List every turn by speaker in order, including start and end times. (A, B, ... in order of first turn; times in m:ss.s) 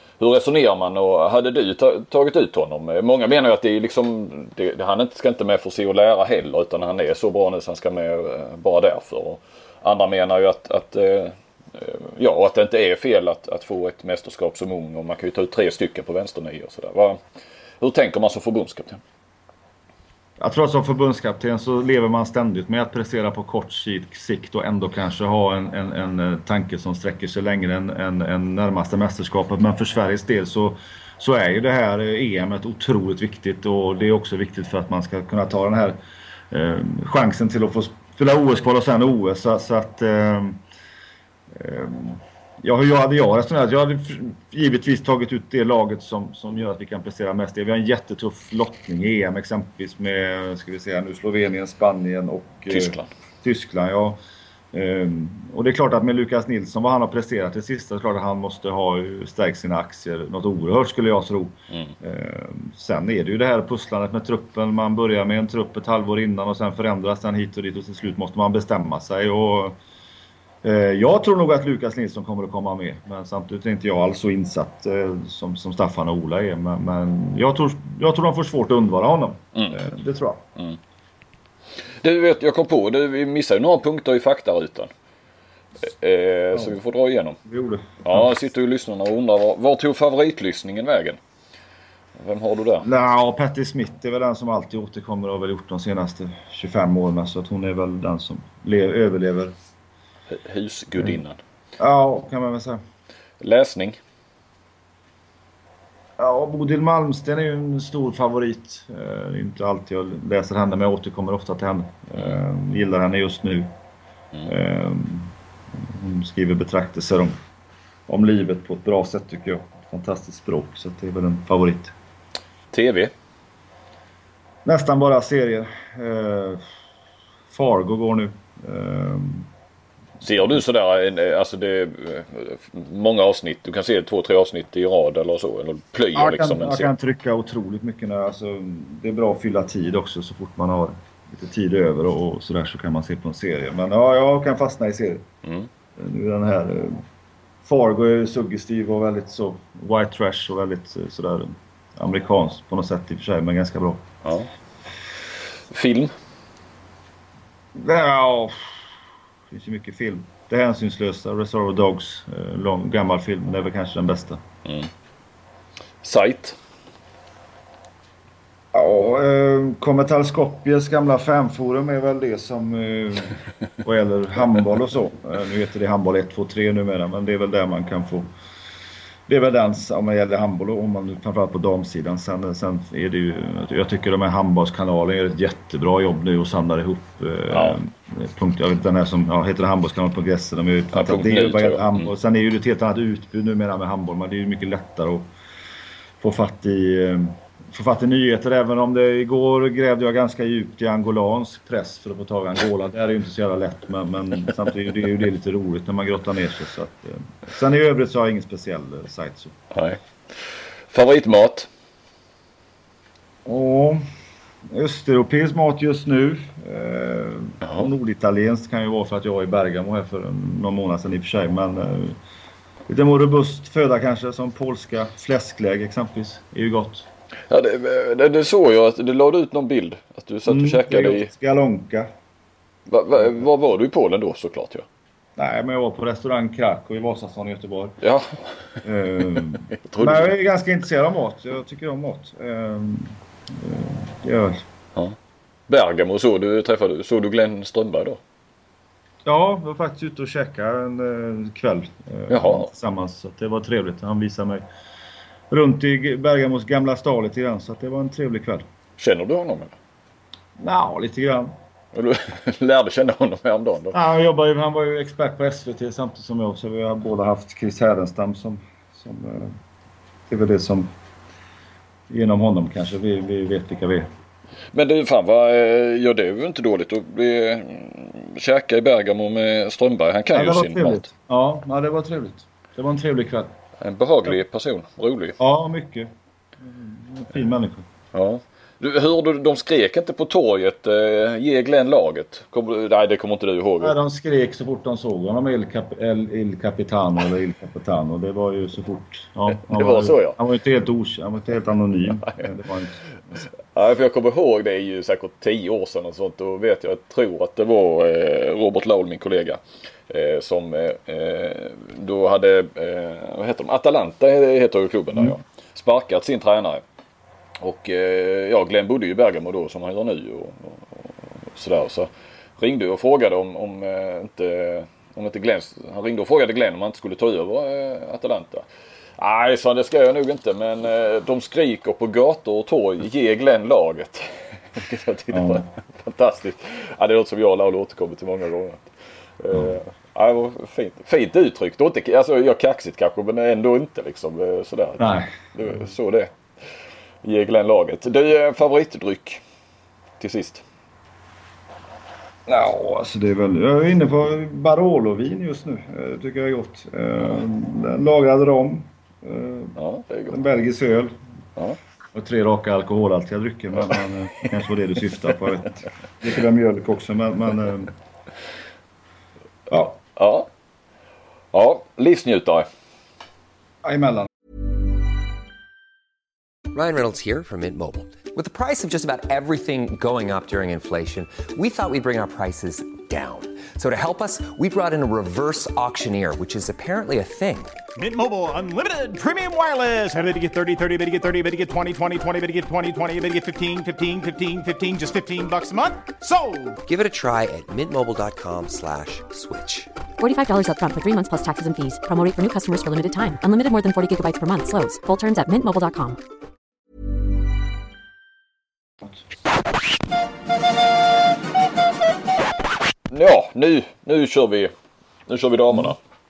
0:00.2-0:17.2 A
0:17.8-0:19.0 A
0:20.4-0:36.0 B
0:36.5-0:40.6 B
0:41.5-0:54.2 B
0:52.7-0:53.1 A
0:54.7-1:09.8 B
1:10.6-1:20.5 B
1:22.0-1:24.9 A
1:25.8-1:27.4 A
1:27.4-1:28.3 B
1:28.0-1:31.2 A
1:32.2-1:32.9 A
1:32.8-1:39.5 B
1:40.3-1:41.4 A
1:41.8-1:42.8 B
1:43.4-1:44.0 A
1:46.2-1:53.7 B
1:54.4-1:57.4 B
1:58.1-2:01.9 B
2:02.7-2:03.1 A
2:04.6-2:06.7 B
2:07.5-2:09.5 B
2:10.2-2:16.9 A
2:16.1-2:25.2 B
2:26.0-2:27.0 B
2:27.6-2:34.1 B
2:34.2-2:34.5 A
2:35.7-2:36.1 A
2:37.7-2:38.9 B
2:39.5-2:44.4 B
2:46.0-2:46.6 A
2:48.7-2:58.3 B
2:59.3-3:15.3 B
3:07.5-3:07.8 A
3:10.9-3:12.1 A
3:16.2-3:29.6 B
3:29.7-3:31.7 A
3:33.4-3:34.0 B
3:34.7-3:42.2 B
3:42.9-3:47.1 B
3:47.5-3:51.3 A
3:50.4-3:52.1 B
3:52.9-3:54.8 A
3:55.4-3:58.0 B
3:58.0-3:58.6 A
3:58.8-4:04.6 B
3:59.2-4:00.3 A
4:05.7-4:08.2 A
4:09.2-4:14.6 B
4:12.3-4:12.7 A
4:15.5-4:18.6 B
4:19.0-4:19.7 A
4:20.6-4:21.5 B
4:21.9-4:24.0 A
4:23.9-4:29.6 B
4:30.3-4:30.9 B
4:32.1-4:34.1 B
4:34.7-4:41.1 A
4:40.3-4:43.5 B
4:43.8-4:45.4 A
4:45.4-4:47.9 B
4:48.1-4:54.0 A
4:53.8-5:03.4 B
4:59.6-5:00.4 A
5:03.7-5:16.8 A
5:17.6-5:28.6 A
5:29.2-5:38.9 A
5:35.3-5:35.6 B
5:39.4-5:46.3 A
5:45.0-5:45.3 B
5:47.2-5:49.4 A
5:50.2-5:50.6 A
5:52.4-5:59.8 B
5:59.8-6:00.4 A
6:00.3-6:01.1 B
6:02.1-6:07.9 B
6:09.7-6:10.0 B
6:10.1-6:10.5 A
6:11.5-6:12.7 A
6:13.8-6:14.3 B
6:16.7-6:27.8 C
6:28.0-6:36.8 D
6:36.8-6:39.9 C
6:40.2-6:46.2 E
6:53.1-6:54.7 A
6:55.3-6:56.0 A